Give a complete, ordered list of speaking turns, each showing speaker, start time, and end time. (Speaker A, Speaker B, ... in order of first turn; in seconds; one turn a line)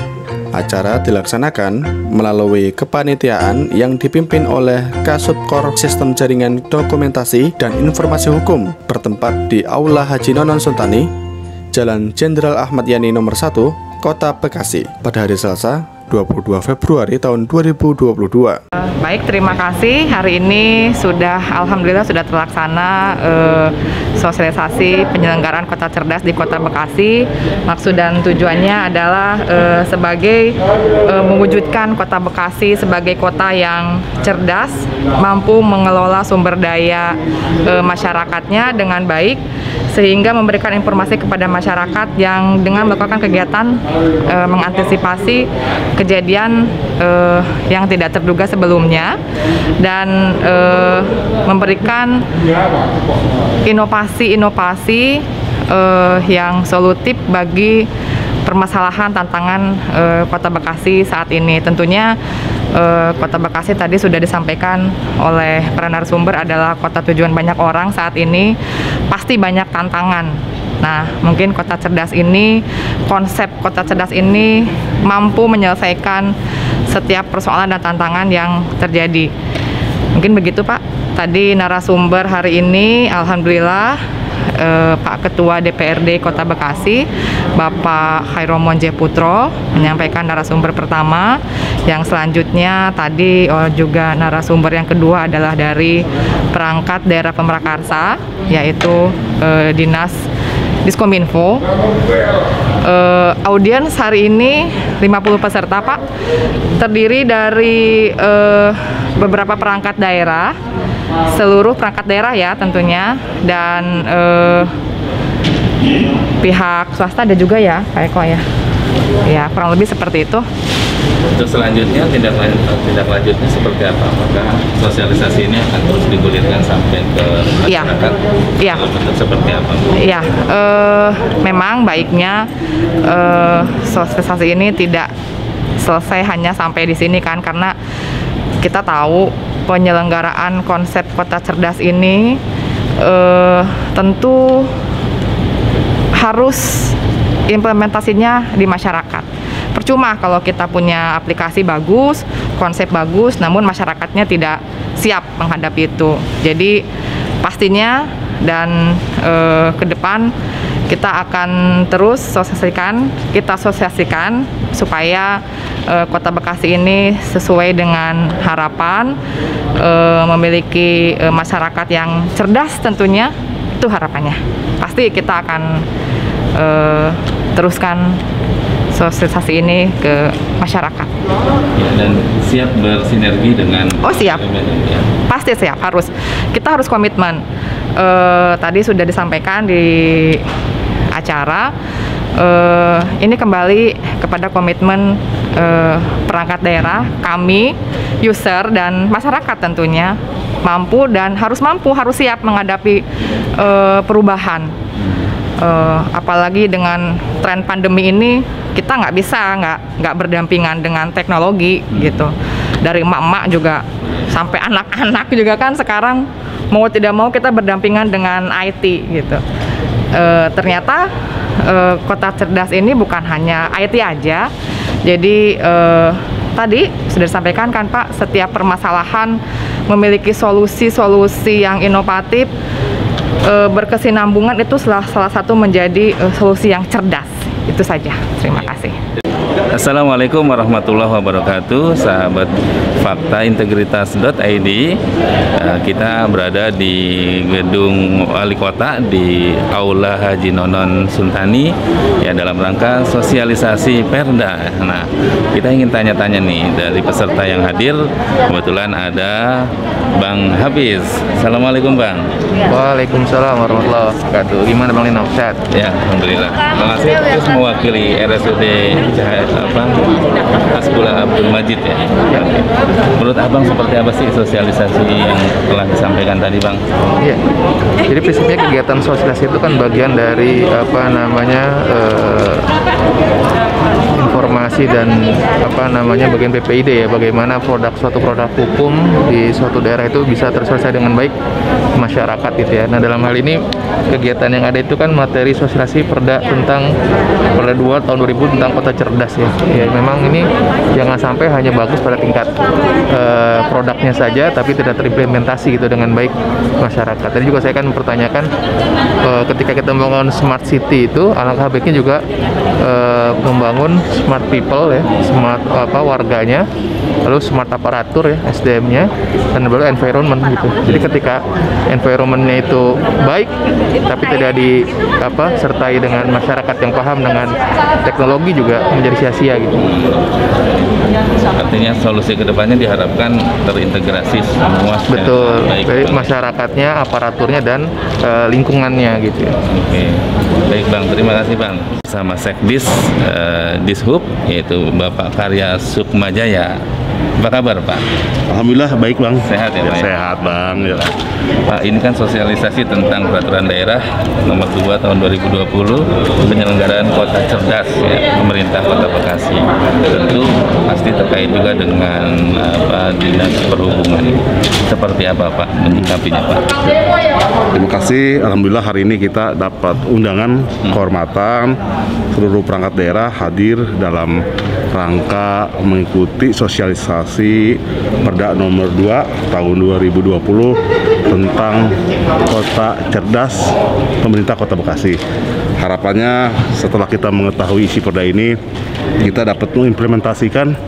Speaker A: 0.5-11.1
Speaker A: 11.7-18.6
Speaker B: 18.9-49.2
Speaker B: 49.8-52.2
Speaker B: 53.6-57.9
Speaker B: 58.4-62.1
Speaker B: 62.7-68.5
Speaker B: 69.1-76.3
Speaker B: 76.9-79.3
Speaker B: 80.1-84.0
Speaker B: 84.5-100.2
Speaker B: 100.8-101.6
Speaker B: 102.8-106.0
Speaker B: 106.8-110.5
Speaker B: 111.3-114.7
Speaker B: 116.4-118.4
Speaker B: 119.2-120.5
Speaker C: 121.3-130.0
Speaker B: 127.7-127.9
Speaker B: 130.0-132.5
Speaker B: 133.0-135.1
Speaker B: 135.8-137.7
Speaker B: 138.6-142.4
Speaker B: 143.0-144.7
Speaker B: 146.1-146.9
Speaker B: 147.5-156.8
Speaker B: 157.4-160.3
Speaker B: 160.9-169.2
Speaker B: 169.8-175.8
Speaker B: 176.5-178.2
Speaker B: 178.9-181.1
Speaker C: 181.8-185.1
Speaker B: 184.0-184.4
Speaker B: 185.3-187.4
Speaker B: 188.0-190.4
Speaker B: 191.1-191.7
Speaker B: 192.4-203.0
Speaker B: 203.6-204.7
Speaker B: 205.6-219.4
Speaker B: 220.1-224.5
Speaker B: 225.0-232.5
Speaker B: 233.4-238.9
Speaker C: 239.7-245.0
Speaker C: 245.6-262.3
Speaker D: 262.7-265.6
Speaker C: 265.7-270.2
Speaker C: 270.7-276.8
Speaker D: 278.1-282.7
Speaker D: 284.1-291.3
Speaker D: 291.9-296.9
Speaker D: 297.5-302.5
Speaker D: 303.1-308.5
Speaker D: 309.2-312.2
Speaker D: 312.8-316.7
Speaker D: 317.2-323.5
Speaker D: 324.1-329.8
Speaker C: 329.8-330.9
Speaker C: 331.6-336.4
Speaker D: 335.1-339.5
Speaker C: 339.7-346.8
Speaker C: 347.4-348.0
Speaker E: 348.5-351.1
Speaker C: 349.4-351.1
Speaker C: 351.6-366.6
Speaker E: 367.7-371.7
Speaker E: 372.3-380.8
Speaker E: 381.3-385.2
Speaker E: 385.8-388.5
Speaker E: 389.2-390.7